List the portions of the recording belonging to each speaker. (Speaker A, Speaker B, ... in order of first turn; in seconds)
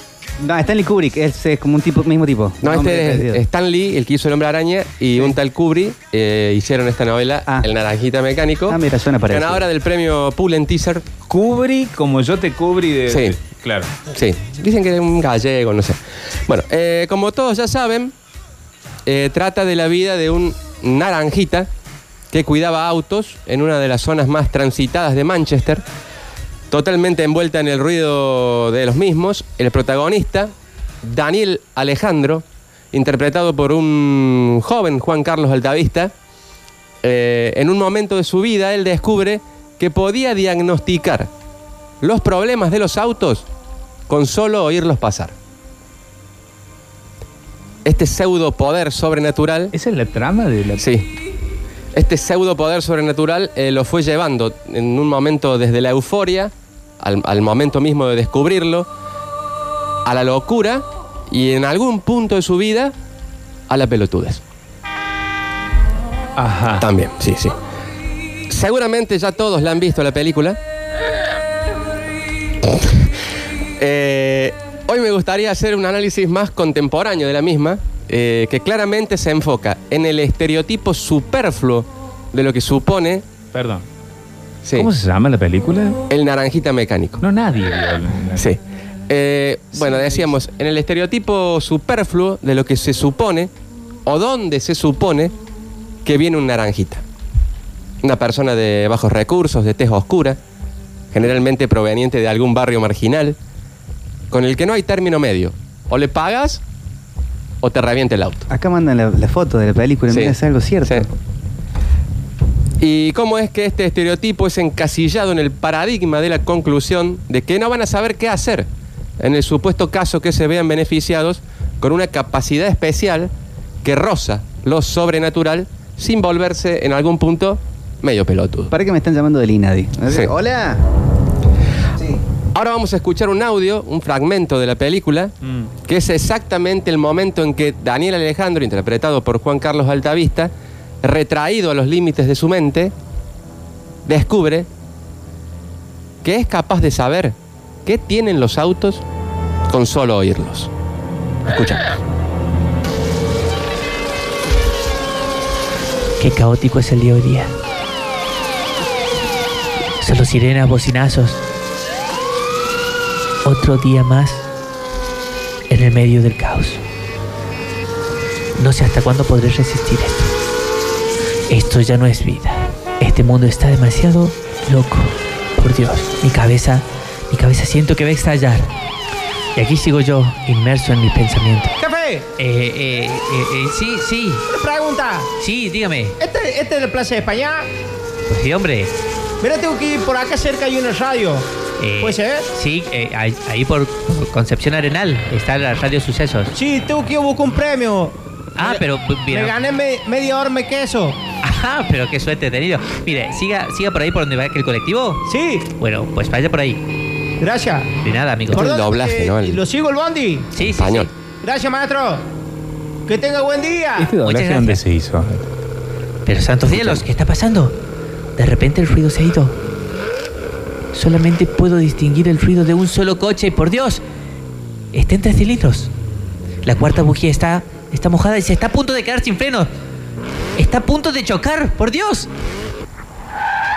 Speaker A: 0.4-3.4, 8.7-9.6, 108.5-111.1, 128.7-130.8
Speaker B: 2.6-11.0, 13.1-13.3, 14.1-18.1, 19.1-21.7, 22.3-25.8, 26.7-36.1, 37.0-41.3, 42.0-43.5, 44.1-45.3, 47.8-49.7, 50.8-51.1, 51.9-58.9, 60.0-62.9, 63.7-64.4, 66.8-67.5, 68.5-70.6, 72.7-73.0, 73.8-83.2, 84.6-84.9, 86.1-87.2, 88.4-93.5, 94.0-95.3, 96.0-97.0, 98.0-100.4, 101.1-103.4, 104.3-106.6, 107.6-108.5, 110.1-111.1, 112.8-118.7, 119.2-123.3, 123.8-128.7, 132.5-135.3, 135.8-142.9, 144.1-144.7, 146.2-149.0, 149.7-150.7, 151.4-151.8, 208.5-209.6, 210.7-211.1, 216.7-217.0
Speaker C: 11.3-13.9, 49.7-50.8, 66.4-66.8, 83.5-83.8, 84.7-86.0, 87.2-88.5, 89.7-90.3, 135.4-135.7, 214.0-215.5
Speaker D: 156.2-157.5, 160.0-161.4, 163.4-164.5, 165.7-166.8, 168.6-170.3, 171.5-178.7, 179.5-181.7, 182.4-184.4, 185.4-186.1, 188.3-188.9, 191.8-196.5, 198.6-199.6, 201.4-205.2, 205.8-206.8, 208.0-208.7, 210.5-211.1, 214.2-214.8, 216.2-217.7, 218.4-219.6, 220.9-224.0, 224.9-225.9, 226.6-229.7, 230.6-232.3
Speaker E: 181.8-182.3, 184.5-185.3, 186.2-187.7, 189.4-192.5, 196.5-201.2, 205.2-205.7, 207.4-207.9, 208.5-210.5, 211.4-212.3, 213.1-214.1